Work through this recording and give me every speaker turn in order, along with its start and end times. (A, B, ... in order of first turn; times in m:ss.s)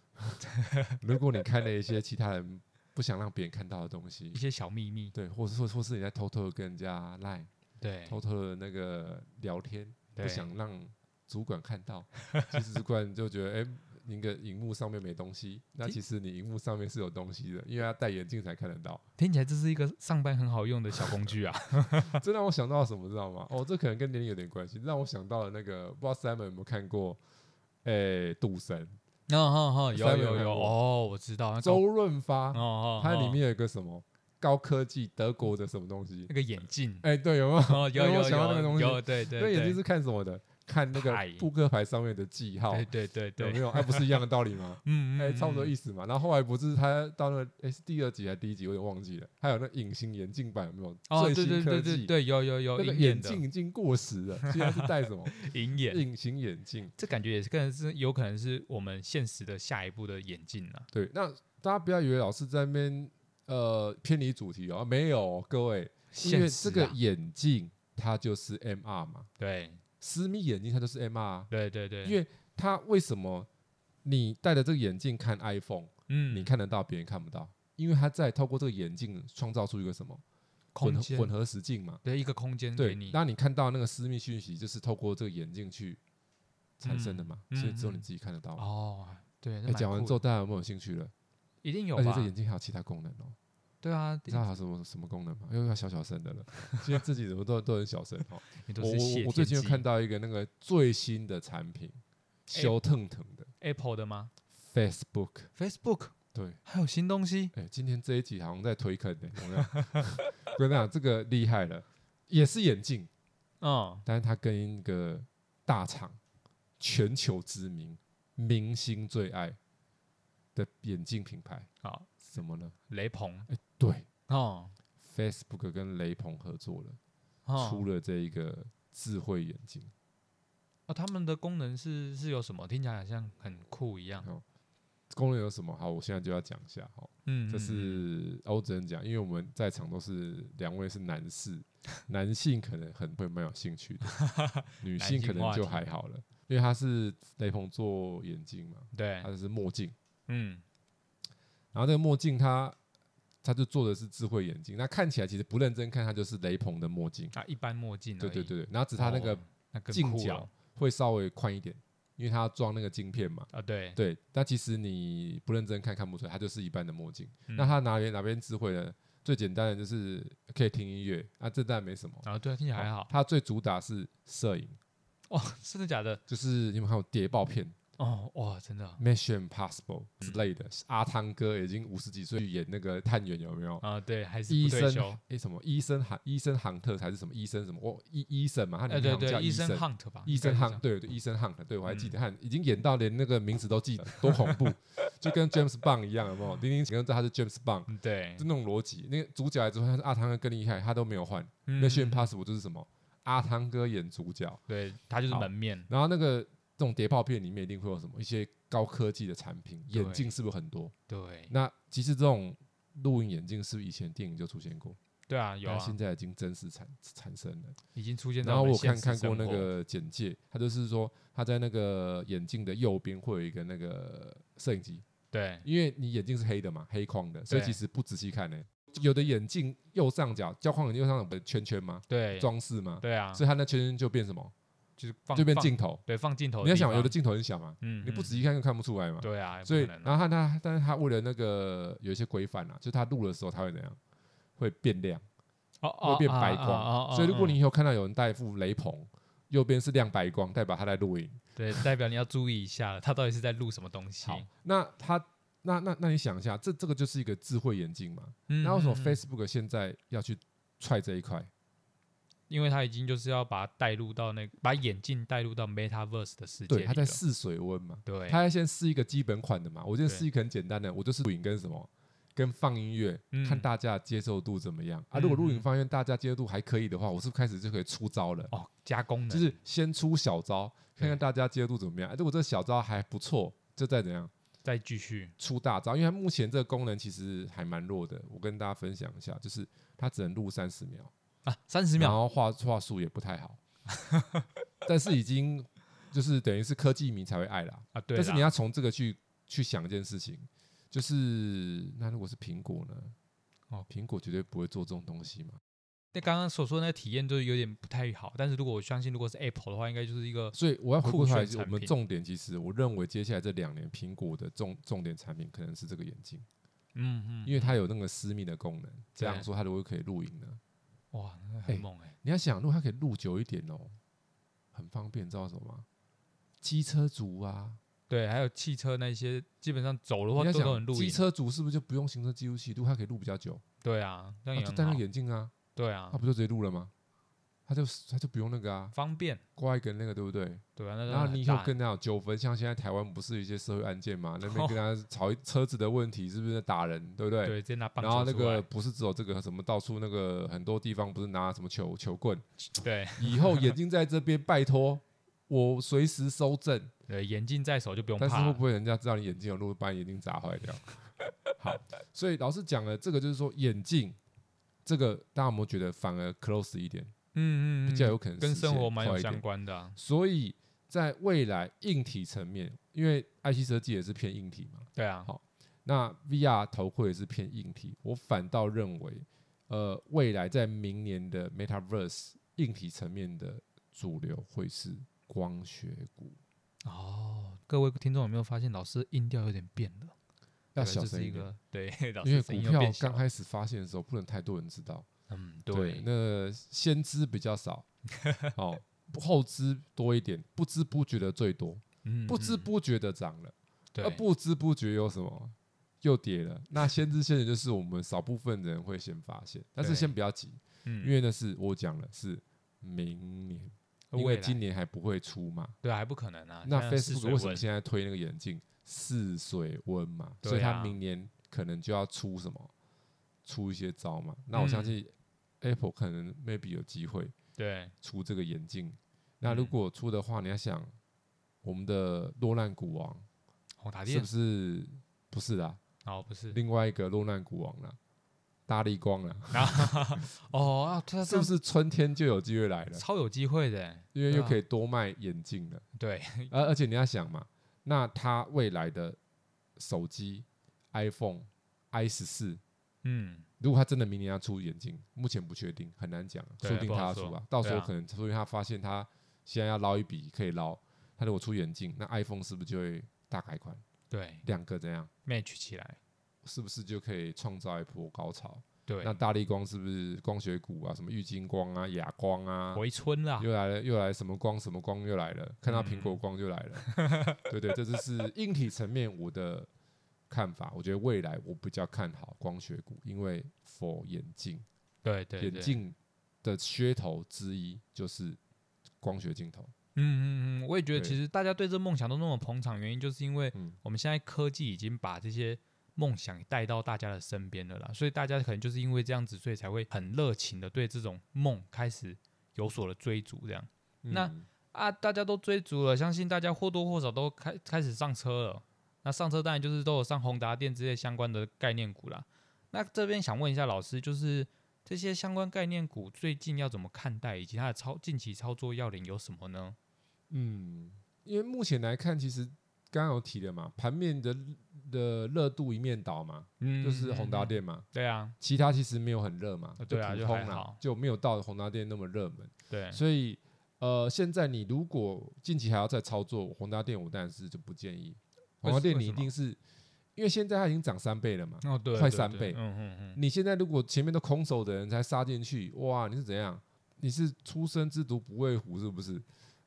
0:00.2-0:00.4 A
0:00.4-0:01.0 B
0:01.0-0:04.4 A
0:04.3-0:05.1 B
0:05.1-0:07.5 A
0:07.8-0:08.2 B
0:08.1-0:19.0 A
0:10.1-0:10.5 B
0:19.2-0:22.2 B
0:21.0-0:21.3 A
0:22.0-0:27.2 A
0:27.8-0:29.0 A
0:29.3-0:31.8 B
0:29.9-0:30.7 A
0:31.6-0:36.3 A
0:32.5-0:33.4 B
0:36.3-0:37.1 B
0:37.0-0:52.1 A
0:37.6-0:39.8 B
0:40.9-0:41.5 B
0:42.7-0:44.3 B
0:44.8-0:45.7 B
0:51.1-0:53.4 B
0:52.8-0:56.9 A
0:54.4-0:56.0 B
0:57.0-1:00.9 B
1:00.9-1:09.3 A
1:06.1-1:07.0 B
1:09.4-1:09.8 B
1:10.0-1:11.5 A
1:11.5-1:12.2 B
1:12.0-1:13.5 A
1:14.0-1:20.2 A
1:16.1-1:16.5 B
1:20.7-1:21.3 B
1:20.8-1:22.0 A
1:22.0-1:23.2 B
1:22.8-1:26.0 A
1:26.8-1:28.6 A
1:26.8-1:28.0 B
1:28.6-1:30.2 B
1:29.7-1:31.1 A
1:31.6-1:32.3 B
1:31.9-1:33.4 A
1:33.8-1:34.5 B
1:34.3-1:43.5 A
1:38.5-1:39.8 B
1:43.6-1:44.3 B
1:44.7-1:45.5 A
1:45.6-1:47.5 B
1:46.3-1:46.6 A
1:47.5-1:53.1 A
1:49.7-1:50.1 B
1:53.6-1:54.0 B
1:54.0-1:56.2 A
1:56.8-1:59.6 A
2:00.5-2:01.7 A
2:01.8-2:02.2 B
2:02.2-2:02.8 A
2:02.9-2:03.5 B
2:03.5-2:04.1 A
2:04.3-2:04.7 B
2:05.0-2:07.0 A
2:07.4-2:07.8 B
2:07.6-2:09.9 A
2:10.9-2:14.3 B
2:15.1-2:24.2 A
2:17.2-2:18.0 B
2:24.1-2:25.8 B
2:24.8-2:29.9 A
2:28.9-2:29.3 B
2:30.3-2:30.6 B
2:31.7-2:32.8 A
2:33.4-2:37.3 A
2:37.3-2:40.5 B
2:38.2-2:54.8 A
2:43.5-2:44.0 B
2:47.5-2:47.7 B
2:52.2-2:53.1 B
2:55.3-2:56.2 B
2:56.3-2:57.8 A
2:58.0-2:59.0 B
2:59.0-3:03.8 A
3:03.8-3:05.2 B
3:04.5-3:24.6 A
3:08.9-3:10.8 B
3:11.9-3:12.2 B
3:14.1-3:14.6 B
3:17.9-3:18.4 B
3:21.6-3:22.3 B
3:24.7-3:25.9 B
3:25.3-3:30.9 A
3:29.9-3:30.3 B
3:31.1-3:31.5 B
3:31.5-3:35.0 A
3:35.3-3:36.0 B
3:35.6-3:37.8 A
3:37.9-3:39.7 B
3:38.4-3:45.0 A
3:45.3-3:45.6 B
3:45.6-3:54.5 A
3:47.5-3:47.8 B
3:52.1-3:52.5 B
3:53.0-3:53.4 B
3:55.0-3:57.1 B
3:55.3-3:56.0 A
3:56.6-4:04.0 A
3:57.8-3:58.4 B
3:59.2-4:00.1 B
4:04.6-4:05.2 A
4:05.8-4:07.6 B
4:06.0-4:11.8 A
4:11.6-4:14.5 B
4:14.2-4:21.5 A
4:18.5-4:19.2 B
4:22.5-4:27.2 B
4:26.7-4:38.5 A
4:28.0-4:28.4 B
4:33.3-4:33.7 B
4:35.1-4:35.7 B
4:38.5-4:39.5 B
4:39.3-4:44.3 A
4:44.6-4:45.3 B
4:45.4-4:51.1 A
4:51.4-4:52.2 B
4:52.0-4:53.6 A
4:53.9-4:54.4 B
4:54.8-5:03.1 A
4:57.9-4:58.5 B
5:03.9-5:05.6 A
5:06.1-5:11.9 B
5:10.5-5:16.4 A
5:16.9-5:17.8 B
5:17.4-5:20.6 A
5:19.2-5:19.5 B
5:21.1-5:22.1 B
5:21.7-5:24.0 A
5:24.7-5:25.8 A
5:26.6-5:27.8 A
5:28.1-5:31.2 B
5:30.4-5:33.6 A
5:33.8-5:35.0 B
5:34.5-5:35.5 A
5:35.7-5:36.2 B
5:36.1-5:36.9 A
5:37.7-5:38.9 A
5:38.9-5:39.4 B
5:39.6-5:52.4 A
5:40.8-5:41.7 B
5:44.4-5:44.8 B
5:47.4-5:48.7 B
5:52.8-5:53.7 B
5:53.2-5:56.9 A
5:57.1-5:58.6 B
5:58.2-6:04.2 A
6:04.8-6:07.1 A
6:07.3-6:10.0 B
6:07.8-6:09.4 A
6:10.0-6:26.4 A
6:14.9-6:15.3 B
6:26.8-6:30.1 B
6:30.7-6:31.5 A
6:30.8-6:33.2 B
6:32.2-6:35.1 A
6:35.3-6:36.0 B
6:35.7-6:37.8 A
6:38.2-6:38.5 B
6:38.5-6:55.8 A
6:42.0-6:42.7 B
6:43.9-6:44.2 B
6:49.8-6:50.1 B
6:50.8-6:51.1 B
6:54.1-6:54.6 B
6:55.8-6:57.7 B
6:56.6-7:02.7 A
7:00.4-7:01.0 B
7:03.4-7:07.3 A
7:04.5-7:05.0 B
7:07.6-7:07.9 B
7:08.0-7:10.9 A
7:09.4-7:09.7 B
7:11.6-7:13.2 A
7:13.8-7:14.3 B
7:14.1-7:15.8 A
7:16.0-7:16.6 B
7:16.5-7:18.0 A
7:18.7-7:20.2 A
7:19.5-7:21.5 B
7:21.2-7:23.0 A
7:22.9-7:24.6 B
7:24.1-7:25.8 A
7:26.0-7:26.5 B
7:26.5-7:29.2 A
7:29.8-7:32.6 A
7:33.0-7:33.4 B
7:33.6-7:43.8 A
7:36.6-7:37.9 B
7:44.1-7:44.4 B
7:44.4-7:45.1 A
7:45.2-7:46.0 B
7:46.4-7:52.8 A
7:48.9-7:49.2 B
7:52.7-7:53.5 B
7:53.4-7:59.7 A
7:55.7-7:56.2 B
7:56.9-7:57.4 B
8:00.3-8:04.6 A
8:05.0-8:05.8 B
8:05.4-8:08.4 A
8:09.0-8:09.7 A
8:09.9-8:39.8 B
8:24.0-8:24.5 A
8:40.3-8:47.9 A
8:46.6-8:48.3 B
8:48.4-8:59.6 A
8:49.8-8:50.8 B
8:52.7-8:53.0 B
8:58.6-8:59.3 B
9:00.2-9:02.6 A
9:01.6-9:03.2 B
9:03.1-9:09.2 A